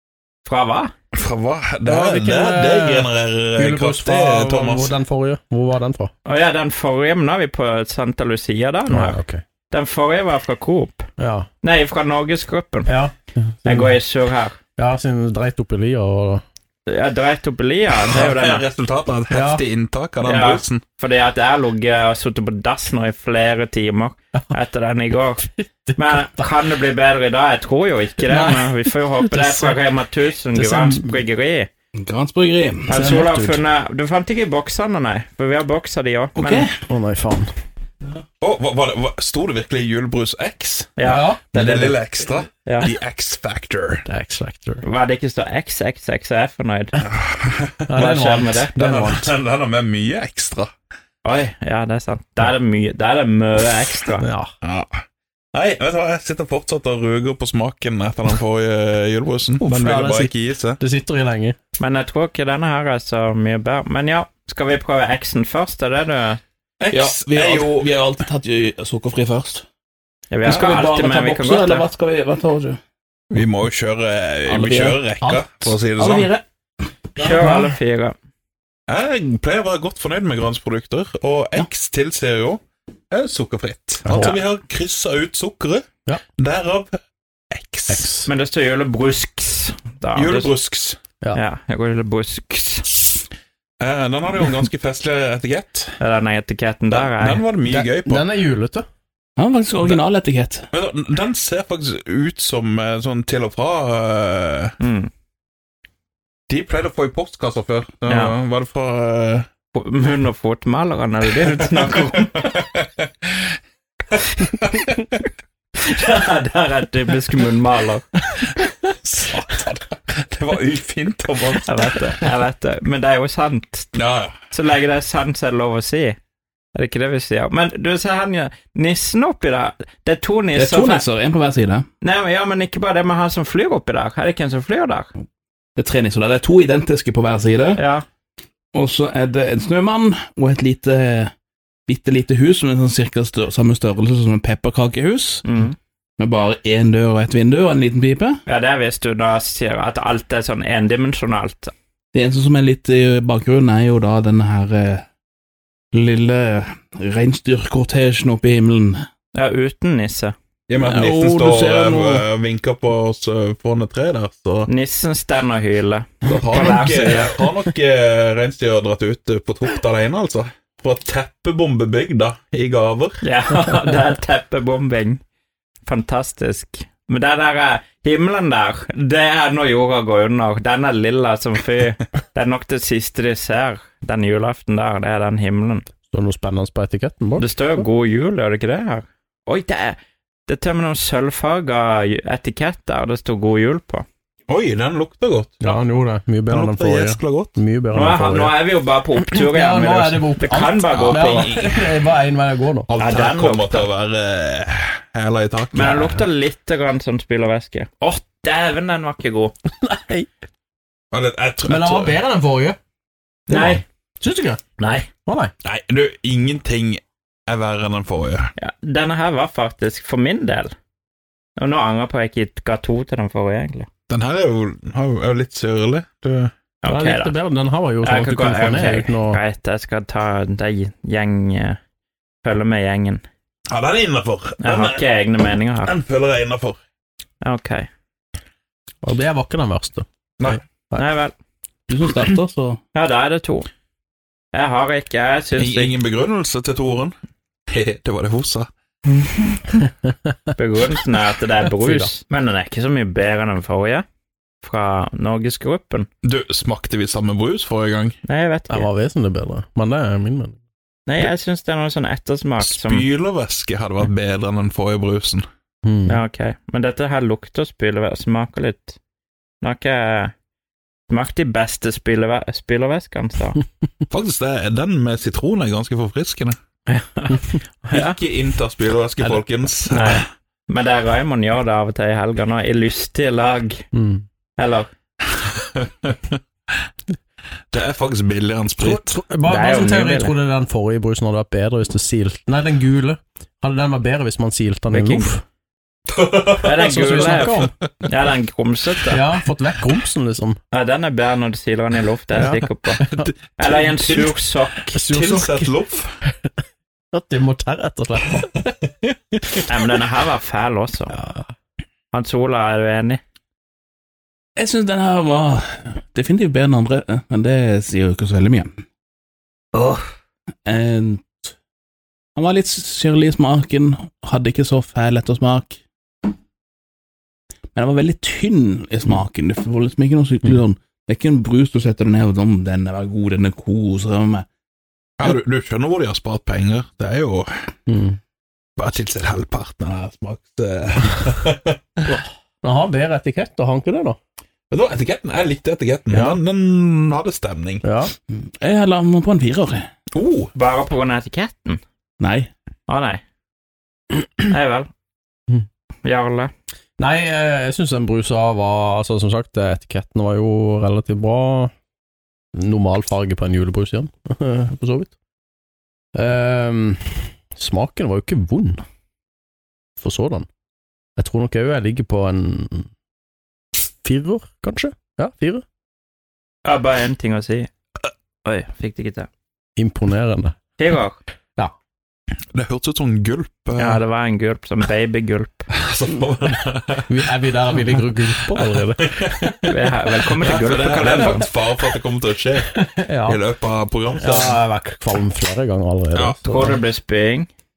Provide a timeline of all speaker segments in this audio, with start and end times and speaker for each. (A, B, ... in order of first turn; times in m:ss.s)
0:00.4-0:00.9 A
0:01.1-0:04.9 B
0:01.8-0:06.1 C
0:06.2-0:09.2 A
0:08.9-0:09.4 C
0:09.7-0:11.0 A
0:11.2-0:11.5 C
0:11.6-0:12.9 A
0:12.9-0:13.9 C
0:13.6-0:14.6 A
0:14.8-0:16.4 C
0:16.9-0:18.6 A
0:18.0-0:20.8 B
0:19.3-0:19.6 C
0:20.2-0:31.7 A
0:25.5-0:26.5 C
0:28.2-0:29.8 C
0:30.5-0:31.2 C
0:32.0-0:33.0 D
0:32.9-0:33.6 C
0:32.9-0:36.7 A
0:36.4-0:36.8 D
0:36.9-0:37.5 C
0:38.0-0:41.0 B
0:41.0-0:42.0 A
0:41.0-0:41.4 C
0:41.5-0:44.0 B
0:42.6-0:42.9 A
0:44.0-0:44.8 C
0:44.8-0:47.0 A
0:47.0-0:48.0 B
0:47.9-0:49.3 C
0:48.0-0:48.8 A
0:48.7-0:50.7 B
0:51.2-0:54.2 A
0:54.2-0:54.5 C
0:54.6-0:55.0 B
0:55.5-1:00.8 B
0:59.6-1:01.6 C
1:01.8-1:06.4 A
1:06.8-1:07.9 B
1:06.9-1:09.6 D
1:10.3-1:11.9 A
1:10.4-1:12.8 D
1:10.4-1:10.8 B
1:13.3-1:16.3 B
1:14.5-1:15.3 D
1:15.9-1:16.4 D
1:17.2-1:17.7 C
1:17.2-1:18.1 A
1:18.9-1:25.9 B
1:24.0-1:24.4 C
1:26.4-1:27.0 B
1:27.5-1:28.1 B
1:27.9-1:28.3 C
1:28.2-1:30.5 A
1:30.1-1:31.0 B
1:31.3-1:33.2 A
1:33.8-1:36.0 B
1:36.0-1:37.4 A
1:36.9-1:38.3 B
1:37.7-1:38.8 C
1:39.4-1:40.7 D
1:40.7-1:44.8 B
1:44.8-1:45.1 A
1:46.5-1:49.5 B
1:48.1-1:48.3 A
1:49.7-1:52.5 A
1:51.6-1:53.5 B
1:54.2-1:55.1 B
1:55.8-1:58.1 A
1:58.9-2:01.8 B
2:01.6-2:03.9 A
2:03.9-2:04.4 B
2:04.5-2:06.2 A
2:06.7-2:11.1 A
2:10.5-2:11.9 D
2:12.0-2:15.1 A
2:15.8-2:17.8 D
2:17.8-2:18.0 A
2:18.7-2:21.3 D
2:21.9-2:25.5 D
2:25.4-2:25.8 A
2:26.2-2:28.4 D
2:28.5-2:31.7 A
2:32.1-2:35.0 D
2:35.9-2:39.0 D
2:39.3-2:40.3 A
2:40.7-2:44.7 B
2:40.8-2:42.2 D
2:44.7-2:47.3 A
2:46.2-2:53.2 B
2:53.2-2:55.2 A
2:55.8-3:05.8 A
3:06.1-3:07.5 C
3:07.4-3:14.0 A
3:14.5-3:15.6 B
3:15.6-3:18.6 C
3:16.5-3:17.6 B
3:17.9-3:21.5 A
3:19.3-3:22.9 C
3:20.9-3:22.0 B
3:22.9-3:26.0 B
3:23.0-3:23.9 A
3:25.7-3:29.5 A
3:25.8-3:26.2 C
3:29.8-3:30.3 C
3:31.1-3:32.2 B
3:31.6-3:32.8 C
3:33.5-3:33.8 A
3:33.5-3:34.7 C
3:34.8-3:35.1 A
3:35.2-3:35.5 C
3:35.6-3:38.5 B
3:38.6-3:40.7 A
3:41.6-3:43.9 A
3:44.1-3:46.5 B
3:46.8-3:47.3 A
3:46.9-3:49.4 C
3:48.0-3:51.8 A
3:52.4-3:53.2 A
3:53.7-3:55.0 B
3:54.6-3:55.9 A
3:55.8-3:56.8 B
3:57.4-3:57.9 A
3:59.0-4:01.0 C
4:00.9-4:01.3 A
4:01.9-4:02.8 D
4:02.9-4:03.7 A
4:04.5-4:05.9 A
4:05.6-4:07.1 B
4:07.7-4:08.7 B
4:10.6-4:14.0 A
4:11.7-4:12.1 C
4:14.6-4:16.1 A
4:16.2-4:18.2 B
4:18.2-4:18.9 A
4:18.7-4:20.6 C
4:21.1-4:23.0 A
4:22.6-4:25.4 B
4:25.8-4:26.2 C
4:26.0-4:29.0 A
4:29.6-4:30.3 A
4:31.1-4:33.6 A
4:34.1-4:36.6 B
4:36.9-4:38.2 A
4:37.9-4:40.2 B
4:39.9-4:43.8 A
4:43.9-4:44.2 C
4:44.6-4:44.9 A
4:45.4-4:46.3 B
4:47.7-4:49.2 B
4:48.8-4:55.4 C
4:49.4-4:50.4 A
4:54.9-4:55.3 A
4:56.1-4:57.6 B
4:56.6-4:59.2 A
4:56.8-4:57.7 C
4:59.1-5:00.6 C
5:00.7-5:03.0 A
5:02.3-5:03.3 C
5:03.0-5:04.3 B
5:03.6-5:05.0 A
5:04.9-5:05.7 C
5:05.1-5:06.1 B
5:07.1-5:08.7 C
5:09.6-5:11.1 A
5:11.1-5:11.5 C
5:12.1-5:13.2 A
5:14.6-5:18.8 D
5:19.7-5:20.0 A
5:20.6-5:21.4 D
5:22.4-5:25.8 D
5:27.7-5:34.4 D
5:35.2-5:37.7 B
5:37.9-5:38.2 C
5:38.8-5:42.2 B
5:42.6-5:44.2 C
5:44.7-5:47.8 B
5:47.8-5:48.1 C
5:48.3-5:49.9 D
5:50.1-5:50.5 B
5:50.5-5:51.8 A
5:52.2-5:52.5 D
5:52.9-5:53.2 A
5:54.4-5:54.9 A
5:56.0-5:56.5 A
5:57.0-6:01.7 C
6:02.5-6:05.1 C
6:06.1-6:08.8 C
6:10.0-6:10.5 C
6:11.2-6:12.9 C
6:13.7-6:15.6 C
6:16.6-6:17.7 A
6:18.4-6:19.3 A
6:19.8-6:20.5 C
6:20.8-6:21.2 A
6:22.5-6:24.0 B
6:23.8-6:25.6 A
6:25.7-6:27.2 B
6:27.1-6:29.6 C
6:28.5-6:29.7 B
6:29.7-6:31.5 A
6:30.4-6:34.6 B
6:32.8-6:33.4 C
6:34.2-6:36.8 C
6:36.4-6:37.5 A